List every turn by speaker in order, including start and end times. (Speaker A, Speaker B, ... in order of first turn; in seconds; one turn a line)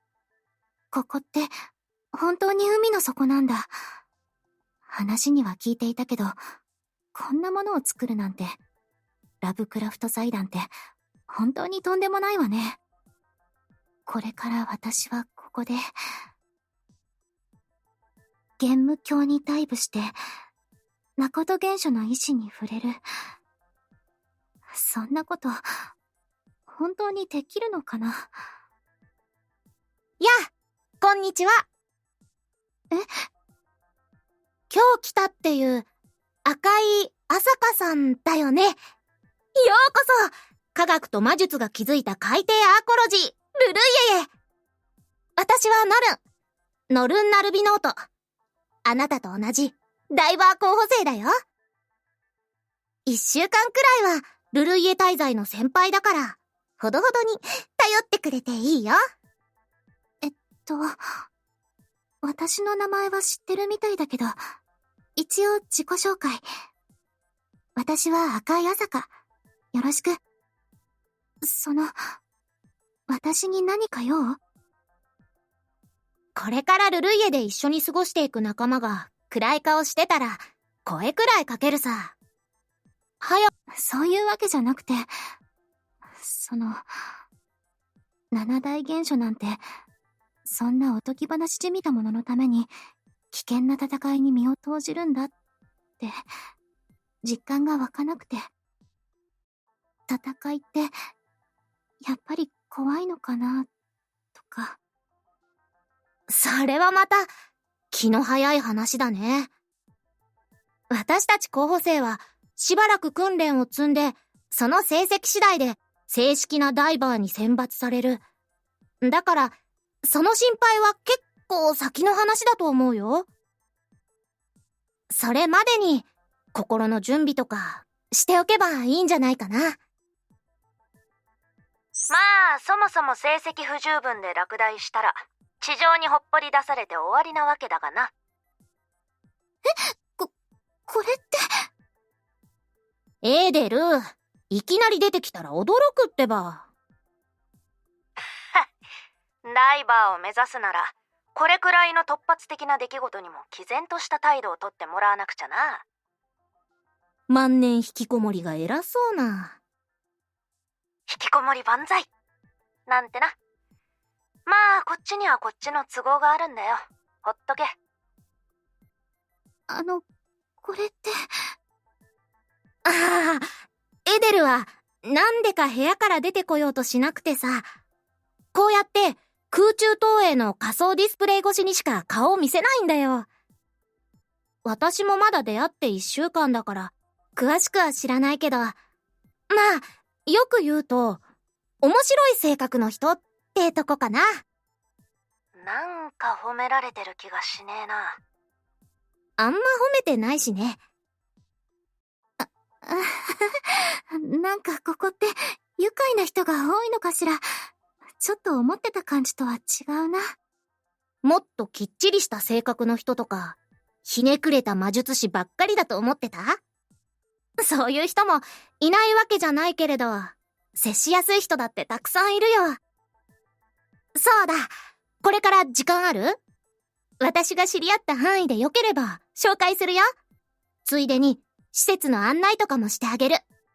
Speaker A: 0.9-1.5
Speaker A: 2.1-3.7
Speaker A: 4.9-6.4
Speaker A: 7.1-8.6
Speaker A: 9.4-10.7
Speaker A: 11.3-12.8
Speaker A: 14.1-15.8
Speaker A: 18.6-20.1
Speaker A: 21.2-23.0
Speaker A: 24.7-25.9
Speaker A: 26.7-28.3
Speaker B: 31.0-31.6
Speaker B: 34.7-35.9
Speaker B: 36.4-38.8
Speaker B: 39.5-44.3
Speaker B: 45.4-46.2
Speaker B: 46.9-48.1
Speaker B: 48.8-51.3
Speaker B: 53.0-59.0
Speaker A: 60.2-61.0
Speaker A: 62.2-64.4
Speaker A: 65.2-66.4
Speaker A: 67.8-69.1
Speaker A: 69.7-70.2
Speaker A: 71.4-71.9
Speaker A: 73.1-74.4
Speaker B: 76.3-82.1
Speaker B: 83.2-83.5
Speaker A: 83.8-85.1
Speaker A: 86.2-86.8
Speaker A: 88.3-89.6
Speaker A: 90.5-92.7
Speaker A: 93.3-95.3
Speaker A: 97.2-98.5
Speaker A: 100.1-100.9
Speaker A: 102.0-103.7
Speaker A: 104.3-104.8
Speaker B: 106.3-107.3
Speaker B: 107.9-109.5
Speaker B: 110.9-118.2
Speaker B: 119.0-123.3
Speaker B: 125.1-129.8
Speaker C: 132.1-138.1
Speaker A: 140.9-141.5
Speaker B: 143.2-146.7
Speaker C: 149.4-155.8
Speaker B: 157.3-159.6
Speaker C: 161.1-162.1
Speaker C: 162.9-163.3
Speaker C: 164.4-167.7
Speaker A: 169.7-170.0
Speaker A: 170.6-171.1
Speaker B: 172.8-173.5
Speaker B: 174.1-177.7
Speaker B: 178.5-183.3
Speaker B: 184.6-188.8
Speaker B: 189.5-191.2
Speaker B: 191.8-194.4
Speaker C: 195.5-198.2
Speaker B: 199.4-200.8
Speaker A: 202.4-207.4
Speaker A: 208.2-210.3
Speaker B: 211.2-216.6
Speaker B: 217.6-222.8
Speaker B: 224.1-224.7
Speaker B: 225.2-226.4
Speaker B: 227.2-230.0
Speaker B: 230.8-233.4